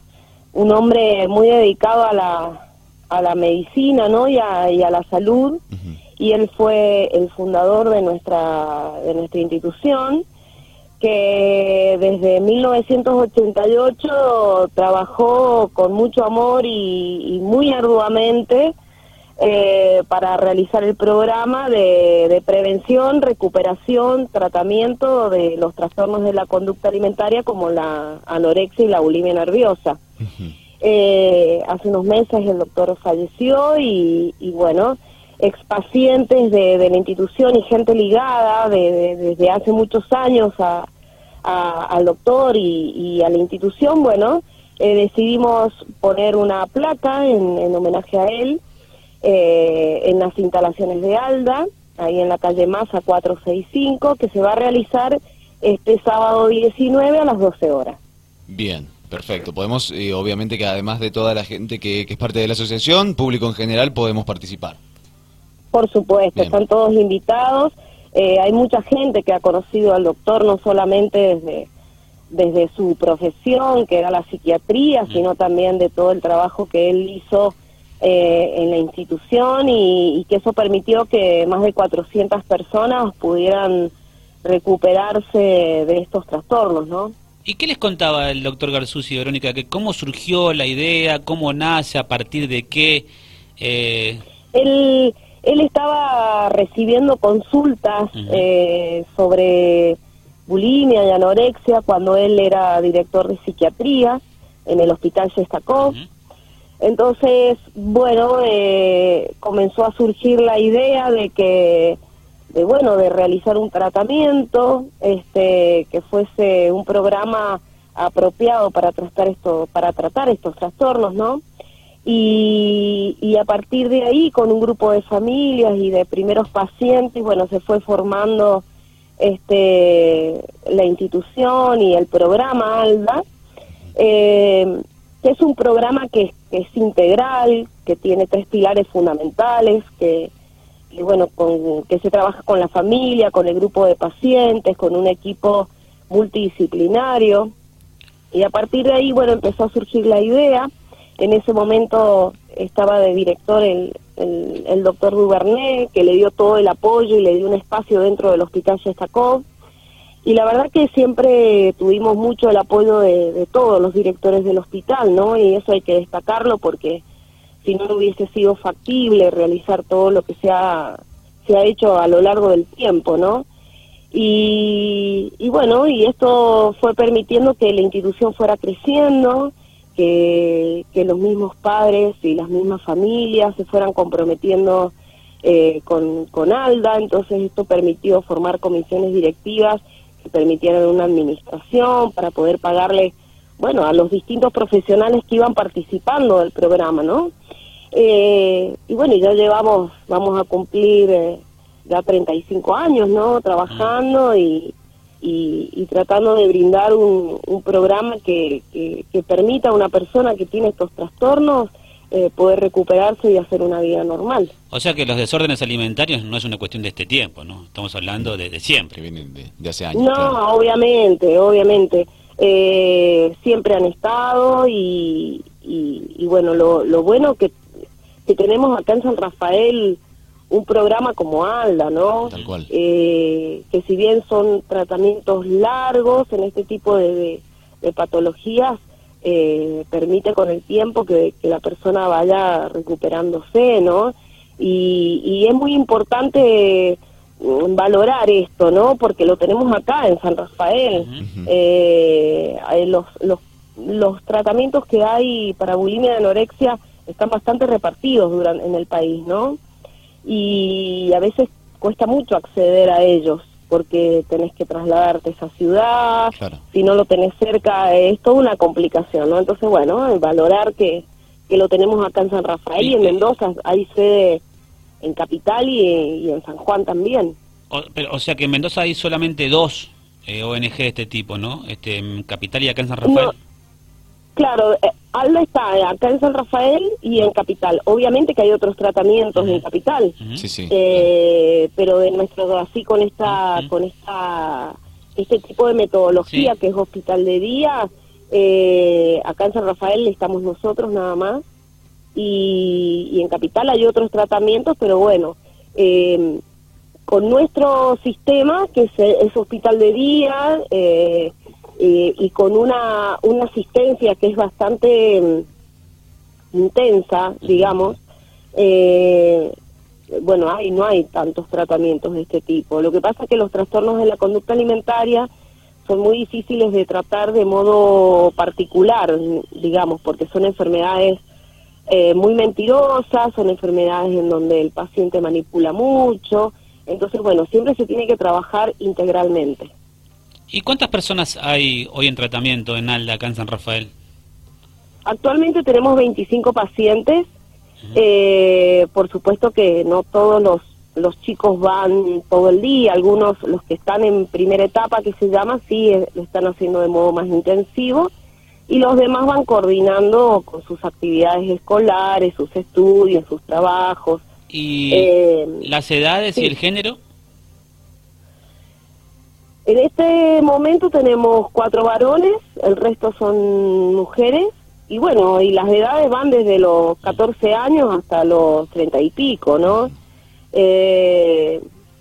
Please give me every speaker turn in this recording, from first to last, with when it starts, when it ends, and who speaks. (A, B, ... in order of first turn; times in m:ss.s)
0:00.5-0:05.6 A
0:06.2-0:10.2 A
0:11.0-0:18.7 A
0:19.4-0:30.0 A
0:30.8-0:40.9 A
0:41.4-0:48.6 A
0:49.2-0:58.0 A
0:58.5-1:04.8 B
1:05.7-1:11.7 A
1:12.3-1:23.9 A
1:24.4-1:27.1 A
1:27.4-1:33.1 C
1:33.6-1:34.2 C
1:34.5-1:46.0 A
1:38.1-1:38.4 C
1:46.8-1:52.0 A
1:52.5-2:01.4 A
2:02.0-2:08.6 A
2:09.2-2:13.2 A
2:13.9-2:20.3 A
2:20.9-2:27.5 A
2:28.3-2:39.5 A
2:40.2-2:47.0 A
2:47.6-2:53.5 A
2:54.1-3:17.3 A
3:17.9-3:34.5 A
3:34.7-3:38.9 C
3:38.9-3:40.4 B
3:39.9-3:47.6 A
3:48.2-4:19.6 A
3:52.3-3:52.7 B
4:10.9-4:11.2 C
4:11.2-4:11.5 B
4:20.2-4:34.4 A
4:26.3-4:26.6 B
4:32.8-4:33.2 C
4:35.0-4:37.4 A
4:37.7-4:43.3 C
4:43.0-4:43.3 A
4:44.4-4:50.2 A
4:49.3-4:49.6 C
4:50.2-4:50.4 C
4:50.4-4:51.1 B
4:50.7-5:01.4 A
4:53.3-4:53.7 C
4:56.2-4:56.5 C
5:02.1-5:06.4 A
5:07.1-5:15.5 A
5:16.5-5:18.0 A
5:18.5-5:19.5 A
5:20.1-5:25.3 A
5:25.8-5:31.2 A
5:31.9-5:39.7 A
5:40.5-5:43.9 C
5:45.0-5:47.3 A
5:47.9-5:58.1 A
5:58.7-6:04.2 A
6:04.5-6:07.0 C
6:04.9-6:05.7 A
6:09.6-6:19.9 A
6:20.5-6:21.6 A